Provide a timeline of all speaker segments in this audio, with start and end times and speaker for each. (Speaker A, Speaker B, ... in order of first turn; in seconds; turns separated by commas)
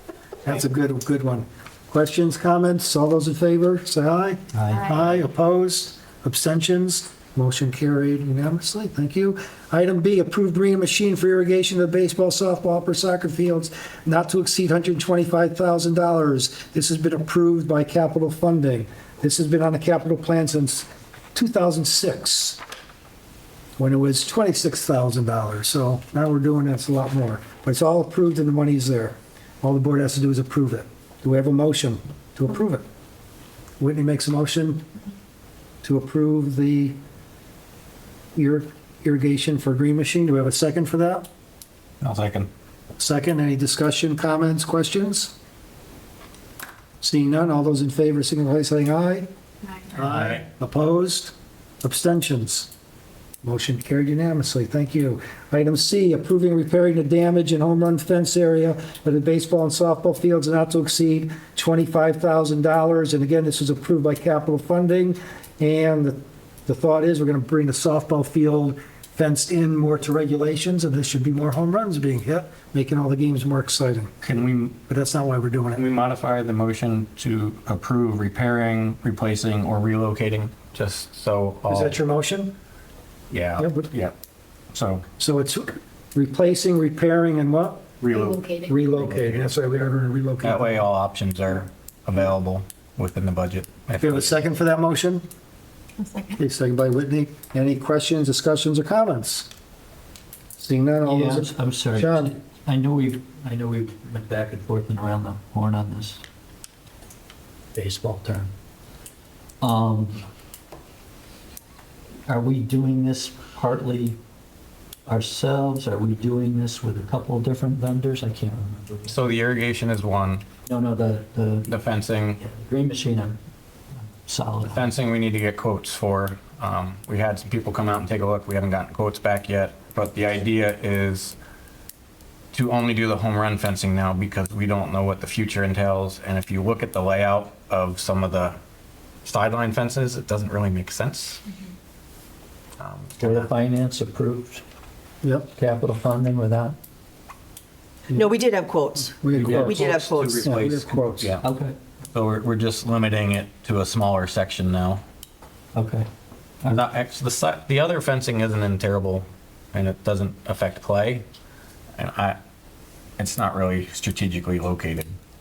Speaker A: 0.4-22.6, Speaker B: 4.5-5.1, Speaker A: 23.8-32.8, Speaker A: 33.8-34.8, Speaker A: 35.8-37.0, Speaker A: 38.3-41.3, Speaker C: 42.0-42.5, Speaker A: 43.0-45.3, Speaker A: 47.0-49.3, Speaker A: 49.9-52.7, Speaker C: 50.0-50.4, Speaker A: 53.4-74.1, Speaker C: 74.2-74.8, Speaker A: 74.9-75.8, Speaker C: 75.7-82.0, Speaker A: 81.7-82.5, Speaker C: 83.3-84.1, Speaker A: 83.6-83.9, Speaker C: 84.7-85.0, Speaker A: 85.2-87.9, Speaker C: 88.0-89.5, Speaker A: 88.6-90.8, Speaker C: 90.4-94.4, Speaker A: 93.9-95.2, Speaker A: 96.3-99.5, Speaker A: 100.6-102.3, Speaker B: 101.0-106.2, Speaker B: 107.7-108.5, Speaker B: 109.6-110.2, Speaker B: 112.3-114.2, Speaker B: 115.1-119.2, Speaker C: 119.1-120.5, Speaker B: 120.7-121.8, Speaker C: 121.7-122.4, Speaker B: 122.4-123.4, Speaker B: 124.2-124.9, Speaker C: 124.6-131.4, Speaker C: 132.5-138.6, Speaker C: 139.2-141.4, Speaker C: 142.8-143.5, Speaker B: 143.2-144.6, Speaker A: 145.2-145.5, Speaker B: 145.5-146.8, Speaker D: 148.1-150.6, Speaker A: 149.2-149.8, Speaker C: 149.3-151.4, Speaker B: 149.4-149.8, Speaker A: 150.4-151.3, Speaker B: 151.4-151.8, Speaker C: 152.1-155.0, Speaker B: 155.7-156.1, Speaker C: 156.7-161.2, Speaker C: 161.9-162.4, Speaker C: 163.2-165.2